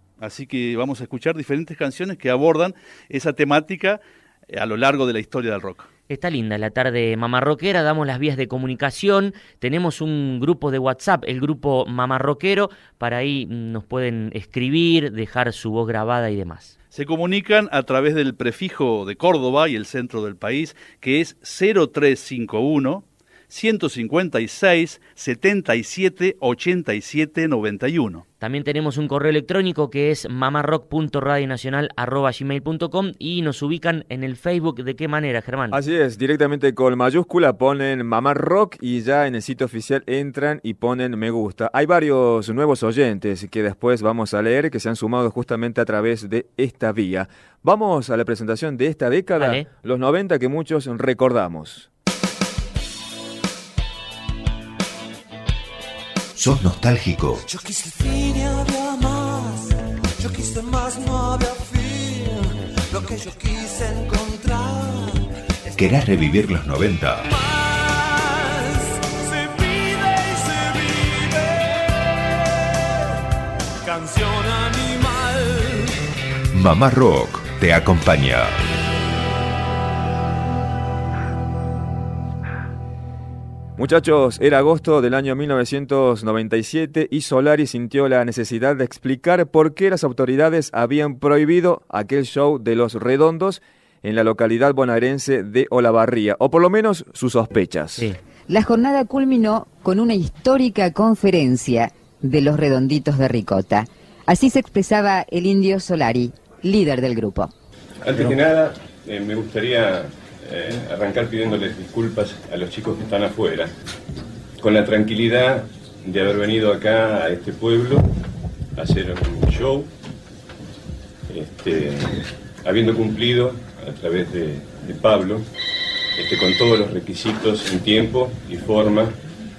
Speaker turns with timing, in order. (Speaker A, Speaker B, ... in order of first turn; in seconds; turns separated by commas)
Speaker A: 0.2-5.9, Speaker B: 6.1-16.8, Speaker A: 16.9-28.2, Speaker B: 28.4-35.8, Speaker C: 35.7-51.9, Speaker B: 49.4-49.7, Speaker D: 56.4-57.4, Speaker E: 57.5-65.2, Speaker D: 65.7-67.3, Speaker E: 67.3-71.7, Speaker E: 73.9-75.3, Speaker D: 76.5-78.6, Speaker C: 83.8-98.1, Speaker F: 98.5-107.5, Speaker G: 108.0-113.7, Speaker G: 114.6-118.1, Speaker G: 118.8-119.9, Speaker G: 121.3-125.5, Speaker G: 126.2-129.2